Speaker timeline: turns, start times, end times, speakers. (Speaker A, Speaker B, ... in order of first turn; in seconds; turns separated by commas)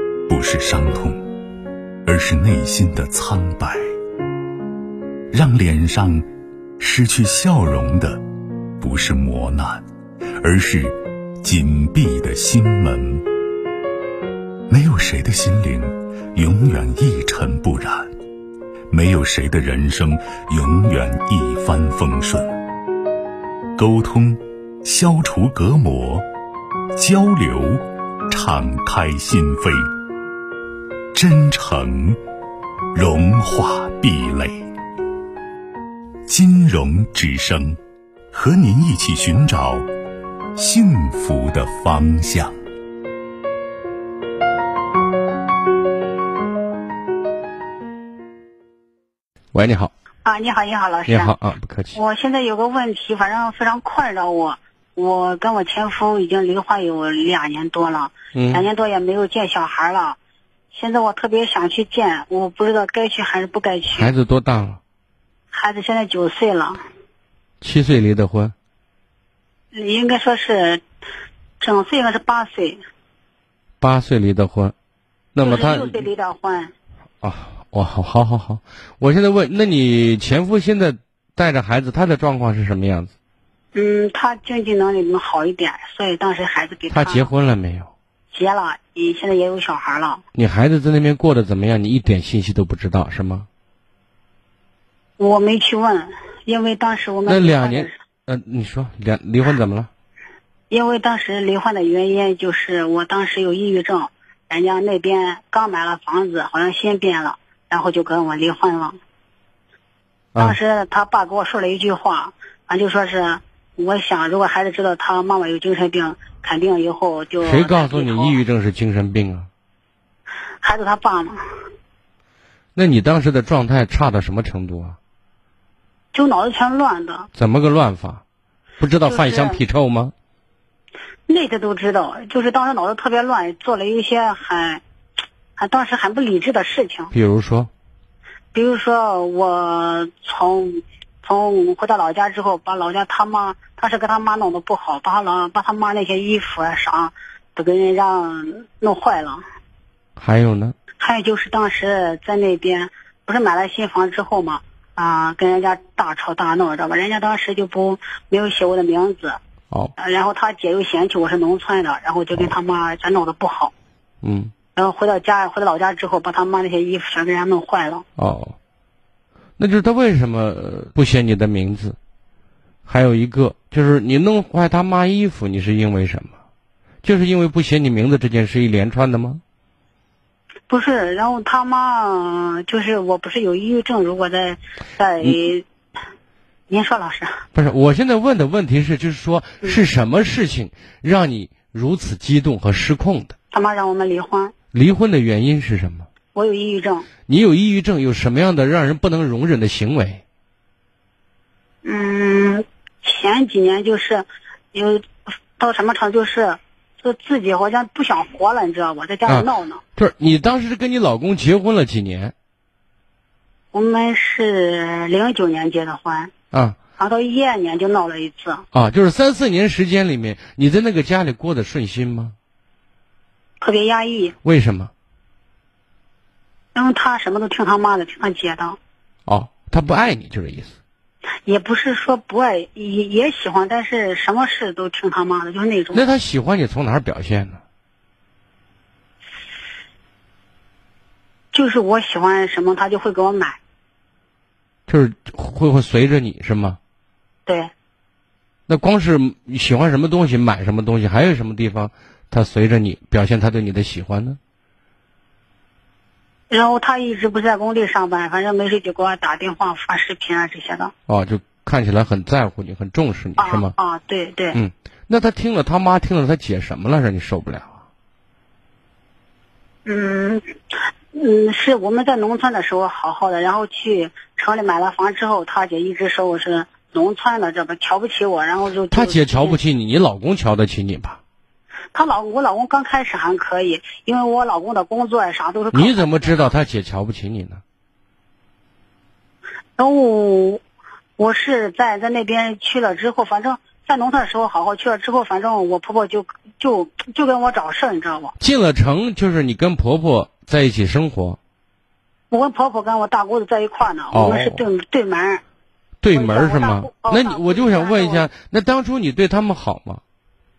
Speaker A: 0.3-1.2, Speaker A: 2.1-3.8, Speaker A: 5.3-6.3, Speaker A: 6.8-8.2, Speaker A: 8.8-9.8, Speaker A: 10.4-13.2, Speaker A: 14.7-18.1, Speaker A: 18.9-22.6, Speaker A: 23.8-26.2, Speaker A: 27.0-29.9, Speaker A: 31.1-32.2, Speaker A: 32.9-34.7, Speaker A: 36.3-37.8, Speaker A: 38.3-39.9, Speaker A: 40.6-42.6, Speaker B: 49.5-49.9, Speaker C: 50.2-51.3, Speaker B: 51.1-52.0, Speaker C: 51.9-60.2, Speaker B: 58.3-58.7, Speaker C: 60.7-64.1, Speaker B: 63.9-64.8, Speaker C: 65.5-66.8, Speaker B: 67.6-68.5, Speaker C: 69.7-70.8, Speaker C: 71.6-72.8, Speaker B: 73.8-74.7, Speaker B: 75.3-76.0, Speaker C: 75.4-76.7, Speaker B: 77.2-83.1, Speaker C: 83.7-87.3, Speaker B: 86.9-87.9, Speaker C: 88.3-90.2, Speaker B: 90.3-93.5, Speaker C: 95.2-98.0, Speaker B: 97.3-99.9, Speaker C: 100.7-109.0, Speaker C: 110.4-118.4, Speaker B: 117.4-119.5, Speaker C: 120.6-121.4, Speaker B: 122.8-125.0, Speaker C: 126.1-127.3, Speaker B: 127.4-128.2, Speaker B: 128.8-130.1, Speaker C: 129.1-129.6, Speaker C: 131.3-134.8, Speaker C: 135.6-137.1, Speaker B: 137.1-137.7, Speaker C: 138.5-149.4, Speaker B: 150.2-150.8, Speaker C: 151.0-159.4, Speaker C: 160.0-163.7, Speaker B: 164.2-164.5, Speaker C: 164.8-168.0, Speaker B: 168.2-168.6, Speaker B: 169.6-172.0, Speaker B: 172.9-176.3, Speaker B: 177.0-179.4, Speaker C: 180.7-185.7, Speaker C: 186.7-187.4, Speaker B: 187.5-193.3, Speaker C: 193.5-194.5, Speaker B: 194.7-196.1, Speaker C: 196.3-197.1, Speaker B: 197.3-200.2, Speaker C: 201.8-209.8, Speaker B: 209.3-212.3, Speaker C: 213.7-216.3, Speaker B: 216.5-216.8, Speaker C: 217.0-218.6, Speaker B: 218.7-222.3, Speaker C: 223.6-224.3, Speaker B: 224.4-224.9, Speaker C: 226.8-228.8, Speaker B: 229.3-230.7, Speaker C: 231.4-236.1, Speaker B: 235.9-237.6, Speaker C: 241.5-243.6, Speaker B: 244.9-246.8, Speaker C: 247.5-247.7, Speaker B: 248.7-254.4, Speaker C: 256.5-260.9, Speaker B: 261.1-263.7, Speaker C: 263.4-264.6, Speaker B: 264.5-267.8, Speaker C: 269.9-270.4, Speaker C: 271.1-279.6, Speaker B: 278.9-281.2, Speaker C: 281.9-286.5, Speaker B: 285.7-287.6, Speaker C: 289.8-290.6, Speaker C: 291.2-298.4, Speaker B: 298.4-301.4, Speaker C: 302.3-305.4, Speaker B: 304.1-304.6, Speaker B: 306.0-310.0, Speaker C: 306.1-308.3